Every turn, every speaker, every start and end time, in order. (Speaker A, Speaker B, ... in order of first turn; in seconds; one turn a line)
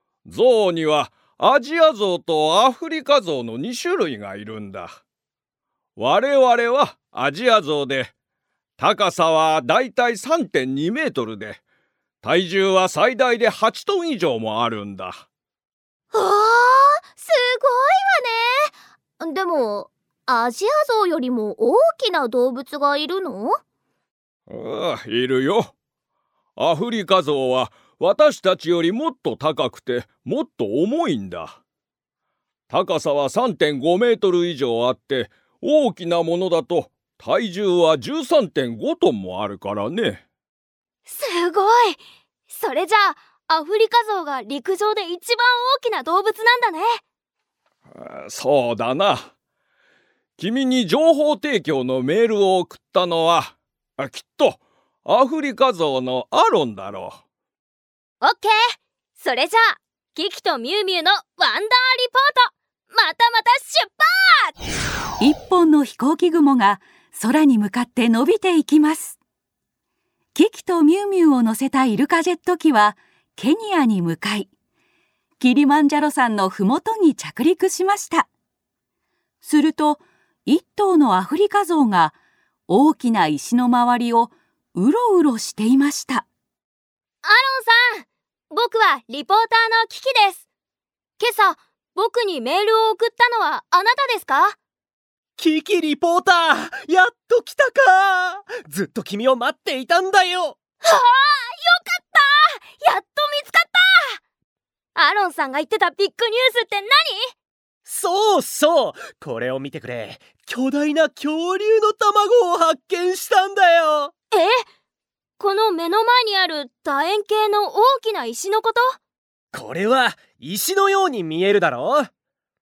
Speaker A: 0.2-5.0
Speaker A: 6.0-8.1
Speaker A: 8.8-11.6
Speaker A: 12.2-15.2
Speaker B: 16.1-23.6
Speaker A: 24.5-25.7
Speaker A: 26.6-31.6
Speaker A: 32.7-40.2
Speaker C: 41.0-47.0
Speaker A: 47.9-49.3
Speaker A: 50.4-57.2
Speaker C: 58.2-64.5
Speaker D: 65.2-69.2
Speaker D: 70.3-74.5
Speaker D: 75.4-78.3
Speaker D: 79.4-82.2
Speaker D: 82.7-86.2
Speaker C: 87.2-90.4
Speaker C: 91.2-94.6
Speaker E: 95.4-100.6
Speaker C: 100.8-104.2
Speaker C: 104.9-107.3
Speaker E: 107.8-114.1
Speaker C: 114.3-114.6
Speaker C: 115.4-119.0
Speaker E: 119.5-122.1